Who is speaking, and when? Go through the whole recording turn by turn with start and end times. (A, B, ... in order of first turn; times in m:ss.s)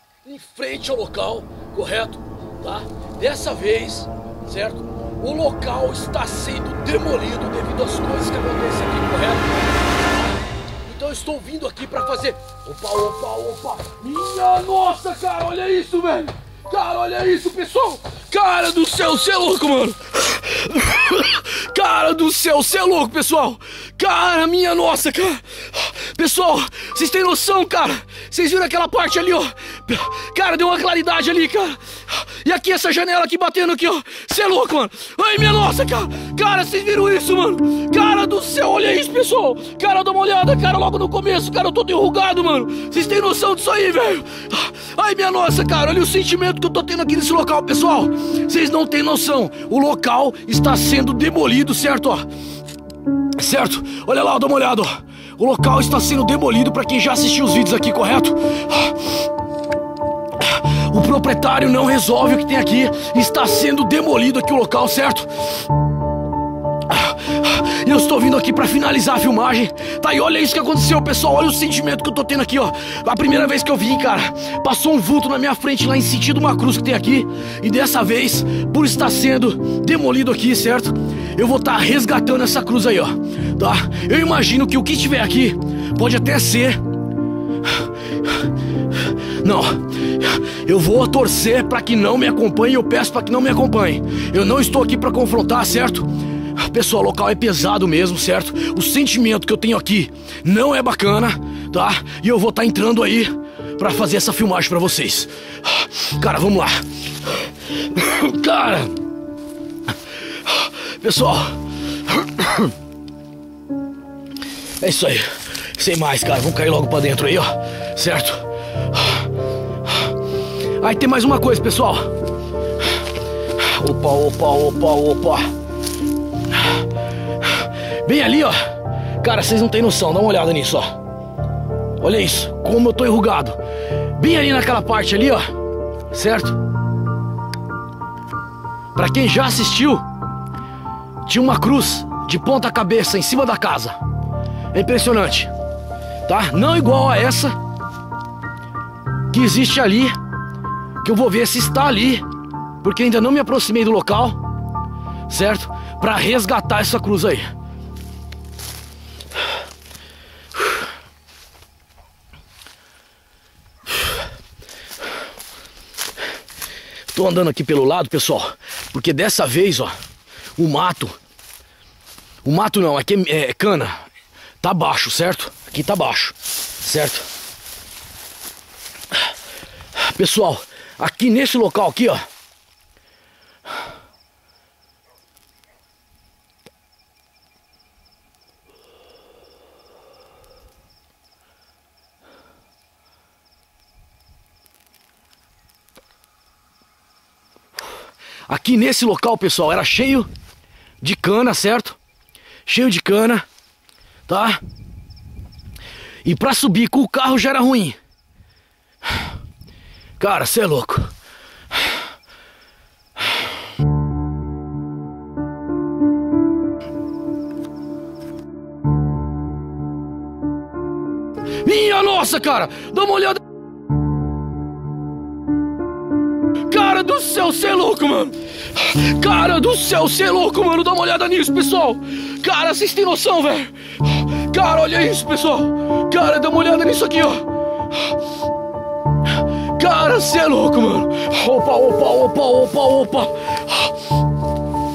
0:00.2-0:09.6 A
0:10.8-0:52.3 A
0:53.4-0:59.1 A
1:00.4-1:05.3 A
1:06.9-1:26.8 A
1:28.9-1:49.0 A
1:50.4-1:52.7 A
1:54.8-1:59.2 A
2:00.8-2:02.1 A
2:03.6-2:05.5 A
2:08.0-2:08.6 A
2:09.2-2:11.0 A
2:12.0-2:13.6 A
2:14.1-2:15.5 A
2:16.1-2:16.6 A
2:18.9-2:20.0 A
2:21.2-2:24.0 A
2:24.7-2:25.5 A
2:26.2-2:27.6 A
2:29.3-2:30.2 A
2:31.0-2:32.3 A
2:32.8-2:34.4 A
2:35.3-2:37.5 A
2:47.1-2:49.9 A
2:50.6-2:51.2 A
2:52.4-2:54.0 A
2:54.6-2:57.3 A
3:00.0-3:02.2 A
3:18.5-3:20.3 A
3:21.0-3:22.0 A
3:22.6-3:23.4 A
3:24.3-3:24.6 A
3:26.2-3:28.0 A
3:30.2-3:31.1 A
3:41.6-3:43.4 A
3:46.7-3:57.5 A
3:59.7-4:03.9 A